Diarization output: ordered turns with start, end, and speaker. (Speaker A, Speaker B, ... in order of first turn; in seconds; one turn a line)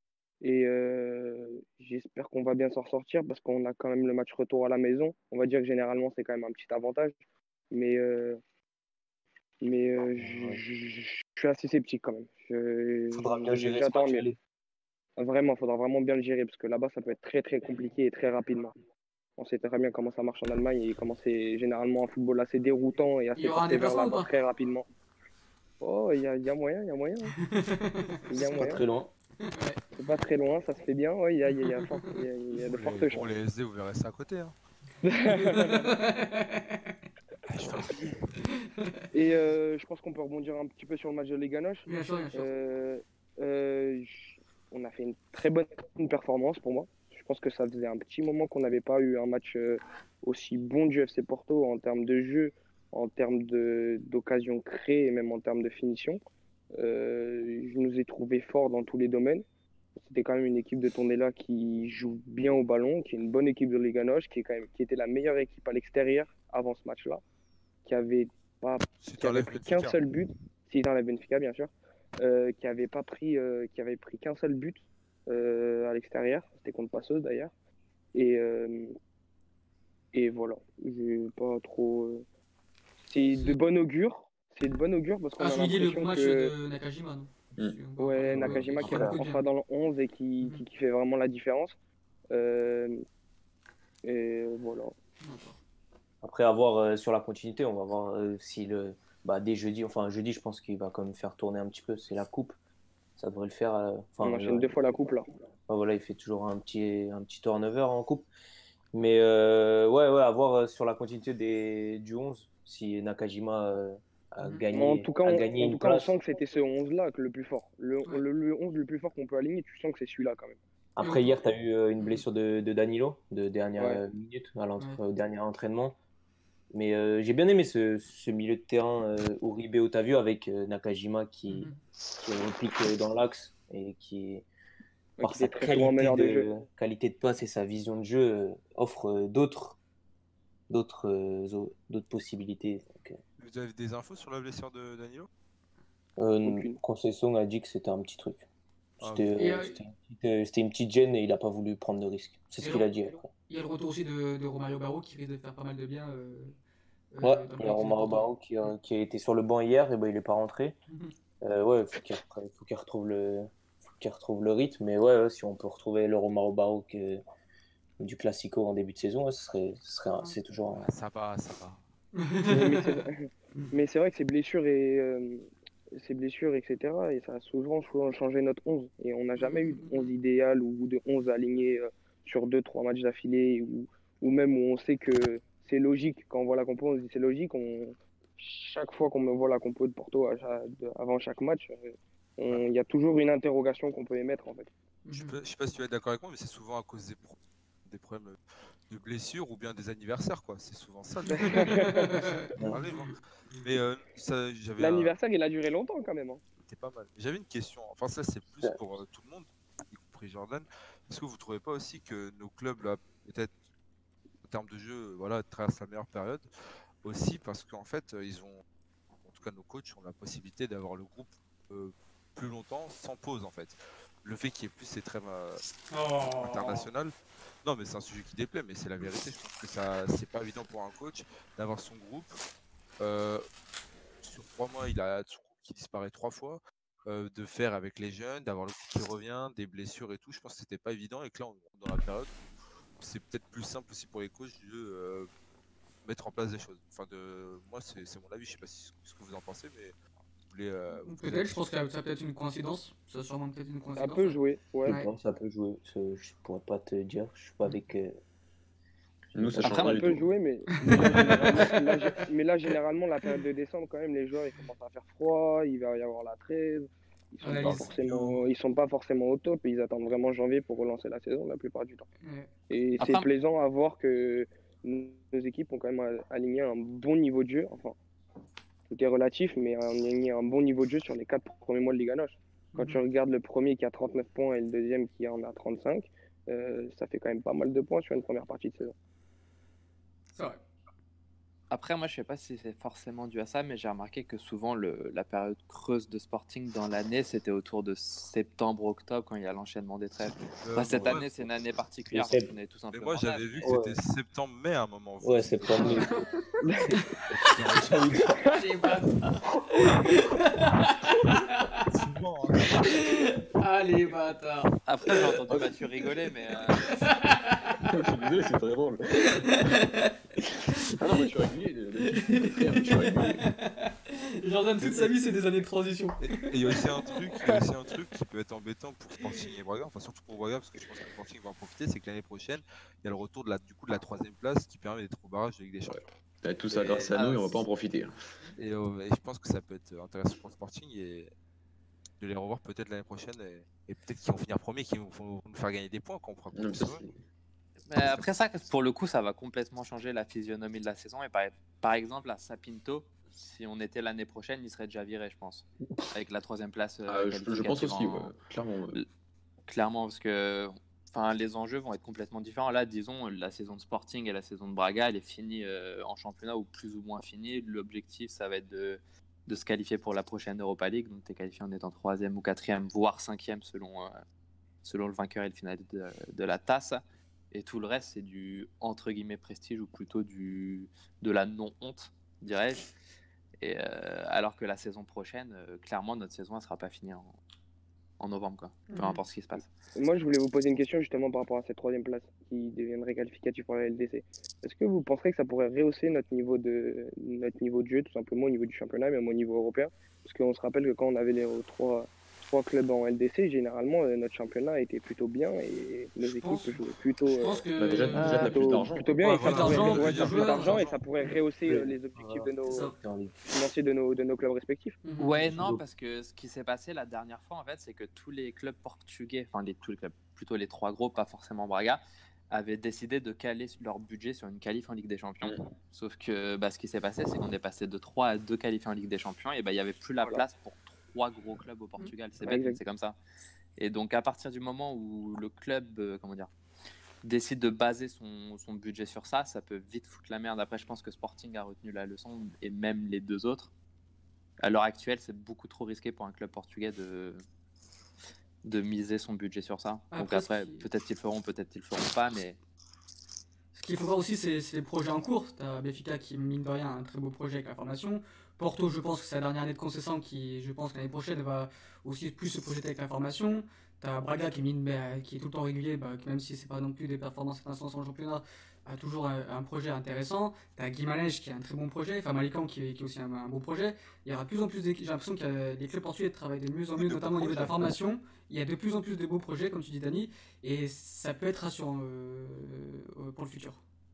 Speaker A: 0.4-7.2
Speaker A: 7.7-8.4
Speaker A: 9.6-14.3
Speaker B: 10.2-10.6
Speaker B: 13.1-14.4
Speaker A: 15.2-18.7
Speaker A: 19.4-24.9
Speaker C: 23.4-24.3
Speaker A: 25.8-27.3
Speaker C: 27.4-28.3
Speaker A: 28.3-28.8
Speaker B: 28.3-29.1
Speaker C: 29.4-29.8
Speaker A: 29.9-33.3
Speaker C: 31.6-32.2
Speaker D: 32.6-34.5
Speaker A: 35.0-35.9
Speaker C: 35.2-37.0
Speaker D: 37.5-38.2
Speaker C: 38.5-39.1
Speaker A: 39.1-56.2
Speaker C: 41.9-42.5
Speaker A: 56.8-59.4
Speaker A: 60.1-67.2
Speaker A: 67.8-77.5
Speaker D: 69.0-70.0
Speaker A: 78.1-79.0
Speaker A: 80.1-82.2
Speaker A: 83.1-86.5
Speaker C: 83.3-83.6
Speaker C: 85.4-89.5
Speaker A: 88.0-91.8
Speaker B: 88.3-89.2
Speaker A: 92.3-93.0
Speaker A: 94.0-94.9
Speaker C: 95.2-95.6
Speaker B: 96.2-102.6
Speaker B: 103.2-104.8
Speaker A: 104.2-105.3
Speaker B: 105.7-108.3
Speaker B: 108.9-116.1
Speaker A: 114.7-120.6
Speaker B: 121.0-126.0
Speaker C: 121.0-121.4
Speaker C: 122.0-122.2
Speaker B: 126.7-134.4
Speaker C: 131.5-131.8
Speaker A: 135.2-136.5
Speaker B: 135.2-139.8
Speaker B: 140.7-143.2
Speaker D: 143.4-145.3
Speaker B: 146.2-148.4
Speaker A: 146.4-146.8
Speaker B: 149.0-153.3
Speaker D: 149.0-149.4
Speaker C: 149.4-149.8
Speaker C: 152.6-152.9
Speaker C: 153.5-156.5
Speaker C: 157.1-158.3
Speaker B: 157.2-160.8
Speaker B: 161.4-167.2
Speaker B: 168.0-170.9
Speaker D: 170.8-171.8
Speaker C: 172.2-173.0
Speaker A: 172.4-175.4
Speaker A: 176.0-194.7
Speaker C: 179.4-180.1
Speaker C: 195.1-195.4
Speaker D: 195.1-198.4
Speaker D: 198.9-202.0
Speaker A: 201.3-202.1
Speaker C: 201.4-203.0
Speaker B: 202.6-202.8
Speaker D: 202.6-205.1
Speaker A: 204.8-206.4
Speaker D: 206.7-213.5
Speaker D: 214.4-216.4
Speaker D: 217.0-218.6
Speaker D: 219.2-225.6
Speaker C: 225.9-226.9
Speaker D: 226.4-232.4
Speaker D: 233.0-233.5
Speaker D: 234.2-242.4
Speaker D: 243.0-245.3
Speaker D: 246.0-249.9
Speaker D: 250.5-251.7
Speaker C: 251.1-255.1
Speaker A: 254.0-254.9
Speaker B: 254.9-258.2
Speaker B: 259.3-260.0
Speaker E: 259.4-260.3
Speaker F: 259.6-260.0
Speaker A: 259.9-272.1
Speaker C: 260.8-262.2
Speaker C: 267.4-268.3
Speaker D: 267.6-268.0
Speaker C: 272.2-272.5
Speaker A: 272.7-278.0
Speaker A: 278.9-288.9
Speaker C: 282.7-283.0
Speaker F: 291.7-303.7
Speaker D: 300.6-301.3
Speaker B: 302.1-302.5
Speaker D: 302.9-306.3
Speaker B: 303.6-304.0
Speaker B: 305.2-306.1
Speaker C: 305.8-306.1
Speaker C: 306.9-307.4
Speaker D: 307.4-308.4
Speaker C: 308.4-311.9
Speaker D: 311.9-313.1
Speaker C: 312.9-314.7
Speaker F: 314.9-316.9
Speaker C: 316.9-317.8
Speaker E: 317.9-319.5
Speaker C: 319.3-320.1
Speaker E: 320.9-323.4
Speaker C: 322.2-327.2
Speaker D: 326.2-336.1
Speaker E: 335.9-338.1
Speaker F: 336.7-337.6
Speaker D: 338.6-341.3
Speaker D: 342.2-347.1
Speaker E: 346.6-347.2
Speaker F: 347.9-358.3
Speaker D: 348.0-348.3
Speaker E: 357.1-359.0
Speaker F: 359.7-374.2
Speaker F: 374.8-382.9
Speaker F: 383.6-387.3
Speaker F: 388.2-389.7
Speaker C: 388.9-389.2
Speaker A: 390.0-407.6
Speaker C: 406.3-406.8
Speaker C: 407.4-408.6
Speaker E: 407.8-409.1
Speaker A: 408.1-412.9
Speaker D: 409.2-411.0
Speaker C: 409.4-410.8
Speaker B: 411.6-413.5
Speaker C: 412.7-412.9
Speaker A: 413.5-415.0
Speaker C: 415.0-415.4
Speaker F: 415.2-433.2
Speaker B: 415.4-415.8
Speaker A: 432.4-432.8
Speaker F: 433.8-436.5
Speaker F: 437.2-443.7
Speaker F: 444.6-447.4
Speaker F: 448.6-452.6
Speaker C: 450.1-450.9
Speaker C: 453.8-483.8
Speaker D: 477.0-477.9